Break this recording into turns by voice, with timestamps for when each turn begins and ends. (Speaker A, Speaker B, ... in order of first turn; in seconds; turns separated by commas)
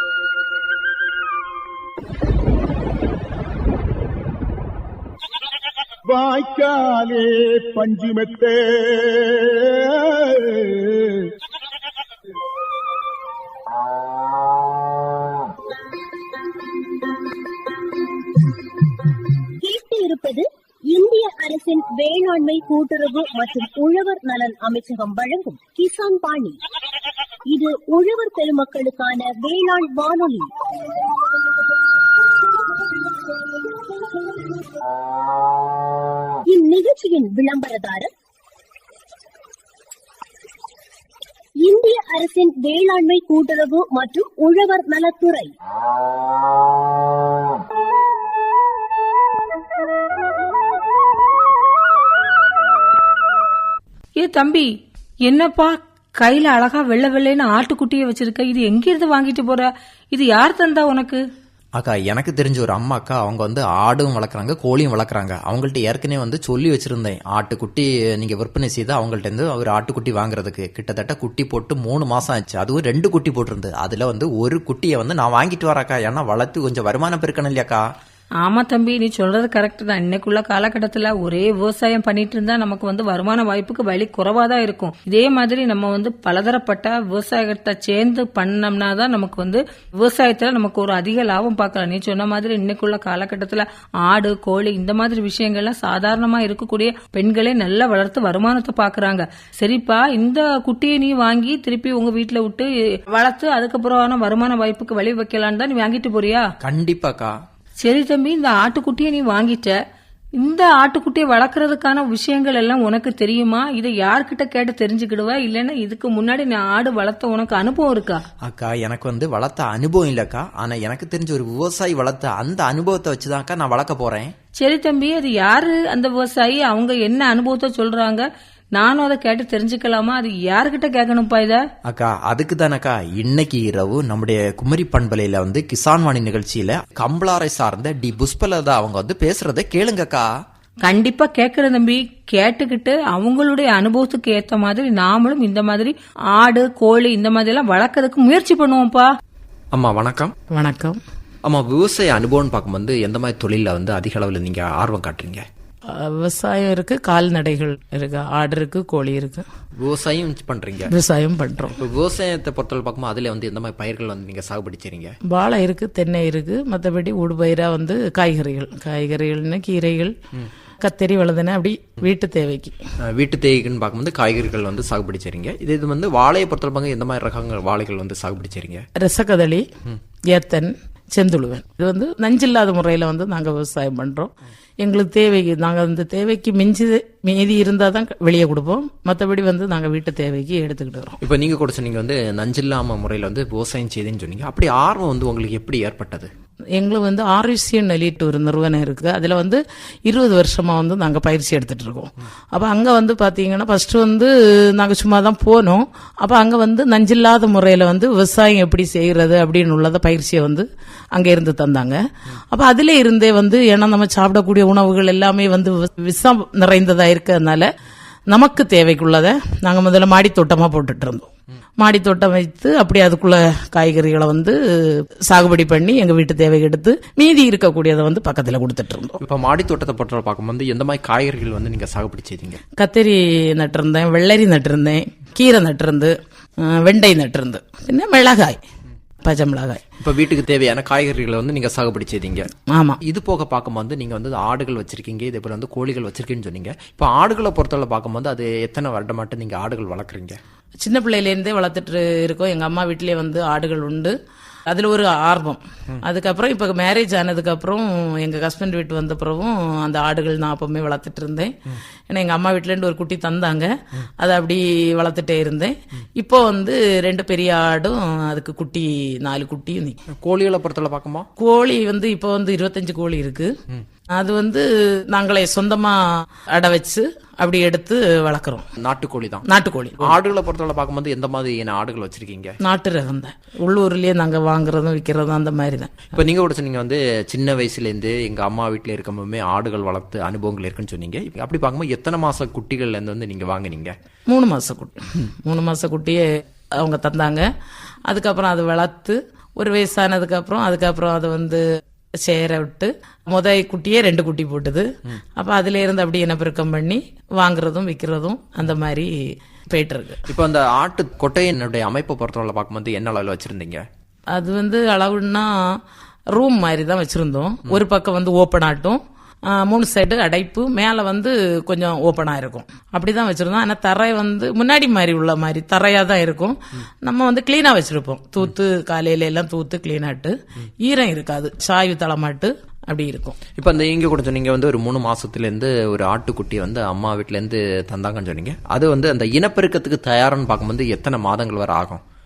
Speaker A: 6.1-11.3, Speaker B: 19.6-26.6, Speaker B: 27.5-30.5, Speaker B: 36.5-38.1, Speaker B: 41.6-45.5, Speaker C: 54.2-54.7, Speaker C: 55.3-61.2, Speaker D: 61.8-77.9, Speaker C: 78.4-106.4, Speaker D: 106.6-107.3, Speaker C: 107.8-109.7, Speaker C: 110.4-118.2, Speaker D: 118.4-124.3, Speaker C: 124.6-128.2, Speaker C: 128.8-131.6, Speaker D: 131.9-140.3, Speaker C: 140.8-149.1, Speaker D: 149.7-150.3, Speaker E: 150.5-151.0, Speaker D: 151.4-155.4, Speaker E: 155.9-159.4, Speaker D: 159.8-160.9, Speaker E: 160.9-161.8, Speaker D: 161.8-165.2, Speaker E: 165.3-170.2, Speaker E: 170.8-172.8, Speaker D: 173.1-178.8, Speaker E: 179.0-179.7, Speaker E: 180.3-191.2, Speaker D: 191.2-196.3, Speaker E: 196.8-217.7, Speaker E: 218.3-221.3, Speaker E: 221.8-229.2, Speaker D: 229.2-232.6, Speaker E: 232.8-238.6, Speaker E: 239.2-239.8, Speaker D: 240.0-242.5, Speaker E: 242.7-243.0, Speaker D: 243.0-250.4, Speaker E: 250.8-254.1, Speaker E: 254.7-261.6, Speaker E: 262.1-270.0, Speaker D: 270.1-271.3, Speaker E: 271.4-273.5, Speaker E: 274.2-278.7, Speaker D: 278.8-279.4, Speaker E: 279.4-280.2, Speaker D: 280.0-282.6, Speaker E: 282.6-286.1, Speaker D: 286.1-293.9, Speaker E: 294.3-296.2, Speaker E: 296.8-297.5, Speaker E: 298.1-301.6, Speaker E: 302.2-309.1, Speaker E: 309.7-310.2, Speaker D: 310.3-313.8, Speaker E: 314.3-315.8, Speaker E: 316.3-319.0, Speaker E: 319.5-333.4, Speaker D: 333.6-342.0